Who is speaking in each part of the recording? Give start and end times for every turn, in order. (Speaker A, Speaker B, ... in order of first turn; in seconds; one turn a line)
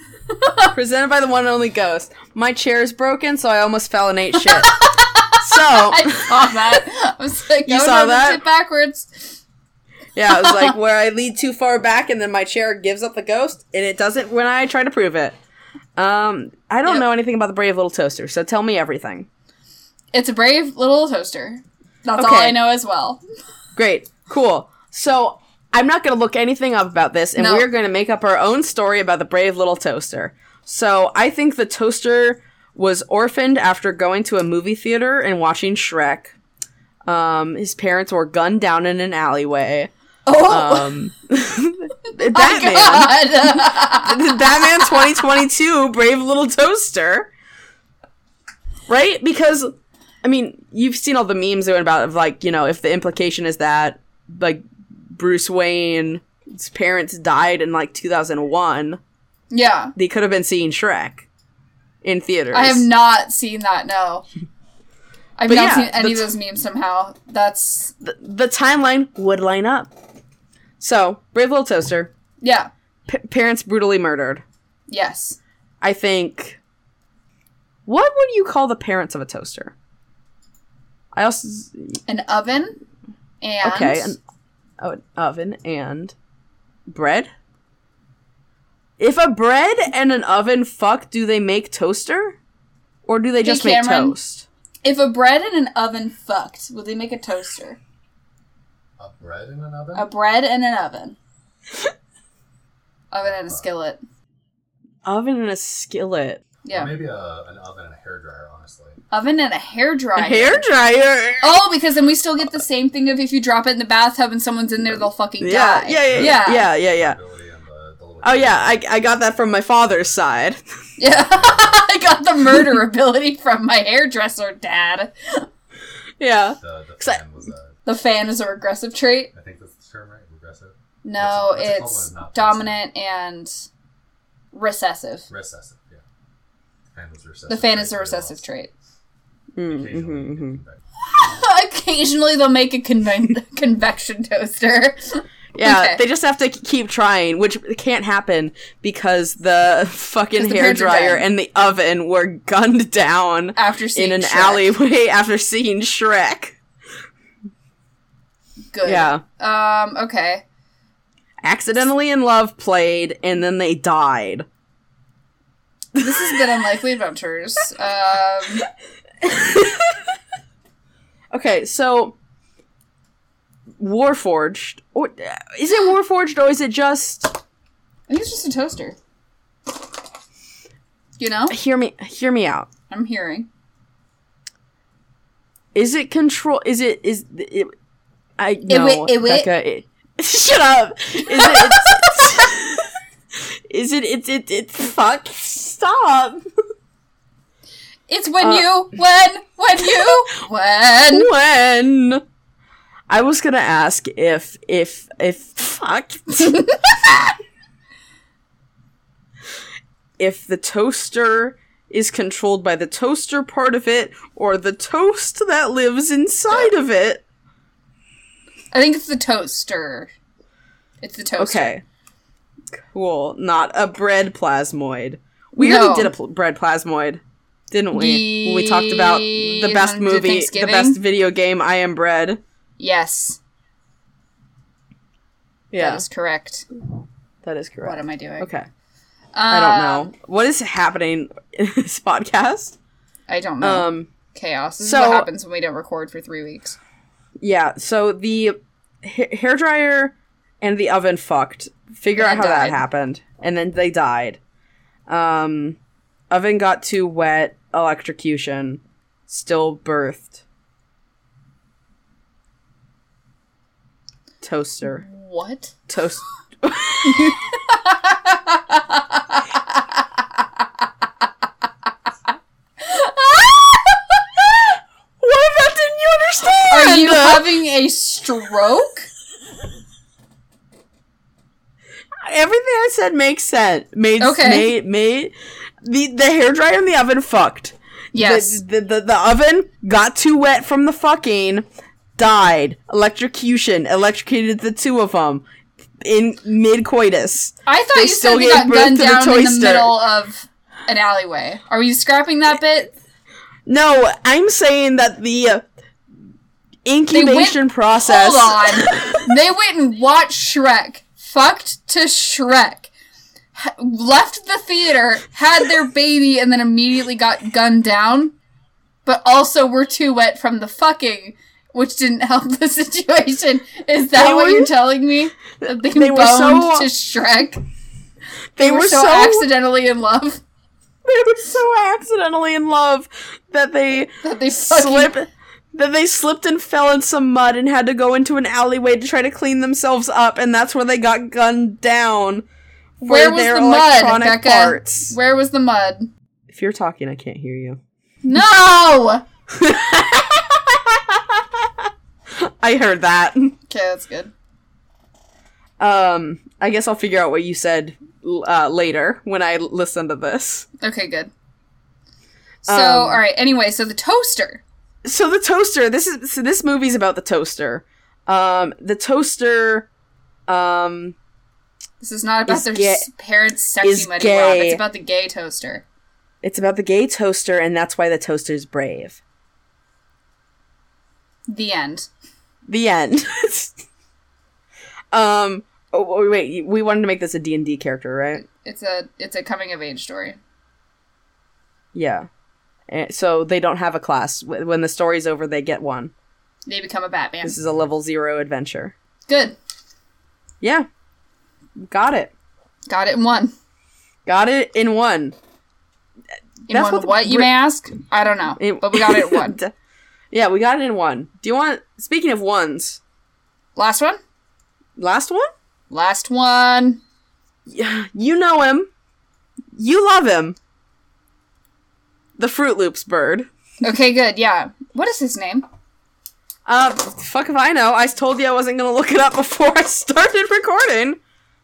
Speaker A: 0.3-0.7
Speaker B: 0.7-6.8
Speaker A: 4.4-9.4
Speaker B: 7.6-8.4
Speaker B: 10.1-15.4
Speaker A: 10.3-10.7
Speaker B: 15.9-19.3
Speaker A: 20.1-23.2
Speaker B: 22.1-22.6
Speaker B: 23.8-36.3
Speaker A: 27.4-27.7
Speaker B: 37.1-39.9
Speaker A: 40.2-41.0
Speaker B: 40.5-47.3
Speaker A: 42.1-45.2
Speaker B: 48.9-59.0
Speaker A: 59.5-59.9
Speaker B: 60.0-61.2
Speaker B: 62.0-62.9
Speaker A: 62.5-64.3
Speaker A: 65.4-67.9
Speaker B: 65.5-66.3
Speaker B: 68.0-69.9
Speaker B: 70.8-72.1
Speaker A: 72.4-72.7
Speaker B: 73.1-74.4
Speaker A: 74.9-75.4
Speaker B: 75.8-76.6
Speaker B: 77.8-79.7
Speaker B: 81.1-82.0
Speaker A: 82.1-82.8
Speaker A: 83.4-84.2
Speaker B: 83.6-84.2
Speaker B: 84.8-86.1
Speaker B: 86.9-87.3
Speaker B: 89.0-92.4
Speaker B: 93.0-94.5
Speaker A: 93.4-94.2
Speaker A: 94.8-97.8
Speaker C: 99.0-100.1
Speaker A: 99.9-101.2
Speaker A: 103.1-104.0
Speaker C: 103.2-103.6
Speaker B: 105.0-106.4
Speaker A: 106.6-106.9
Speaker C: 106.7-109.0
Speaker A: 109.1-110.6
Speaker B: 110.2-111.5
Speaker A: 111.4-116.7
Speaker B: 115.4-117.2
Speaker C: 116.0-119.3
Speaker B: 118.2-120.6
Speaker C: 119.8-120.2
Speaker A: 121.0-125.5
Speaker C: 121.0-121.9
Speaker B: 126.2-127.2
Speaker C: 126.6-127.8
Speaker A: 127.8-129.3
Speaker C: 129.3-132.8
Speaker A: 131.0-133.5
Speaker A: 134.5-135.3
Speaker C: 135.3-136.0
Speaker C: 136.9-138.4
Speaker A: 137.5-138.7
Speaker B: 139.6-140.6
Speaker C: 139.7-141.4
Speaker A: 141.0-146.0
Speaker B: 145.5-156.6
Speaker A: 150.3-151.2
Speaker A: 153.5-154.7
Speaker A: 158.7-160.4
Speaker B: 158.8-159.2
Speaker B: 161.4-164.4
Speaker B: 165.9-166.4
Speaker A: 166.0-168.7
Speaker B: 169.2-170.0
Speaker B: 171.3-172.2
Speaker B: 173.8-177.3
Speaker A: 178.1-179.0
Speaker A: 181.2-181.6
Speaker B: 181.5-182.7
Speaker A: 182.9-183.5
Speaker B: 185.7-187.7
Speaker B: 188.4-196.4
Speaker A: 188.7-189.5
Speaker A: 191.3-192.4
Speaker A: 198.1-201.3
Speaker B: 198.4-198.7
Speaker B: 199.8-200.2
Speaker B: 201.1-202.2
Speaker B: 203.1-206.7
Speaker A: 206.5-207.2
Speaker B: 210.2-217.2
Speaker A: 218.7-220.1
Speaker A: 221.0-221.7
Speaker B: 221.4-221.8
Speaker B: 222.7-232.4
Speaker A: 225.6-226.1
Speaker A: 227.9-231.0
Speaker A: 232.8-233.4
Speaker B: 235.7-236.0
Speaker A: 235.8-236.7
Speaker B: 237.4-238.7
Speaker A: 237.8-238.5
Speaker A: 239.3-240.1
Speaker B: 239.5-242.8
Speaker A: 243.3-246.8
Speaker B: 243.6-244.1
Speaker B: 244.8-245.3
Speaker B: 247.4-254.4
Speaker A: 252.2-252.8
Speaker B: 255.1-255.8
Speaker B: 256.3-260.4
Speaker B: 264.4-265.0
Speaker A: 264.8-265.7
Speaker B: 265.9-267.4
Speaker A: 267.1-270.2
Speaker A: 272.8-274.2
Speaker B: 275.2-277.5
Speaker A: 276.7-279.1
Speaker B: 282.2-291.6
Speaker A: 284.2-284.7
Speaker A: 288.1-288.6
Speaker B: 292.2-295.4
Speaker B: 296.0-300.0
Speaker A: 297.6-302.9
Speaker B: 303.7-305.6
Speaker B: 306.8-309.3
Speaker A: 307.1-312.9
Speaker A: 313.5-318.3
Speaker A: 319.0-327.6
Speaker B: 324.1-324.7
Speaker B: 325.6-326.9
Speaker B: 328.6-329.5
Speaker A: 328.6-330.4
Speaker B: 331.0-342.4
Speaker A: 334.2-335.1
Speaker B: 343.0-345.1
Speaker A: 343.0-346.1
Speaker B: 346.5-347.8
Speaker A: 348.2-349.2
Speaker B: 349.5-353.6
Speaker A: 353.7-354.3
Speaker B: 355.8-360.7
Speaker A: 360.8-361.3
Speaker B: 362.6-363.2
Speaker A: 362.6-364.6
Speaker B: 365.0-369.9
Speaker B: 370.5-371.1
Speaker A: 372.0-375.8
Speaker B: 372.5-373.1
Speaker B: 373.8-374.8
Speaker B: 376.4-379.2
Speaker A: 381.5-382.1
Speaker B: 382.7-383.8
Speaker B: 385.1-388.4
Speaker A: 388.3-390.4
Speaker B: 391.9-392.3
Speaker B: 392.9-396.1
Speaker A: 396.7-397.6
Speaker B: 397.4-398.9
Speaker A: 399.3-399.6
Speaker B: 400.6-400.9
Speaker B: 401.8-402.3
Speaker A: 402.9-403.5
Speaker B: 404.2-405.3
Speaker A: 406.7-409.6
Speaker B: 406.7-407.5
Speaker B: 408.6-409.7
Speaker B: 410.3-413.0
Speaker A: 413.8-414.2
Speaker B: 415.0-415.5
Speaker A: 415.9-417.0
Speaker B: 417.7-418.9
Speaker B: 419.7-420.6
Speaker B: 422.4-423.5
Speaker A: 423.8-425.6
Speaker B: 426.6-431.2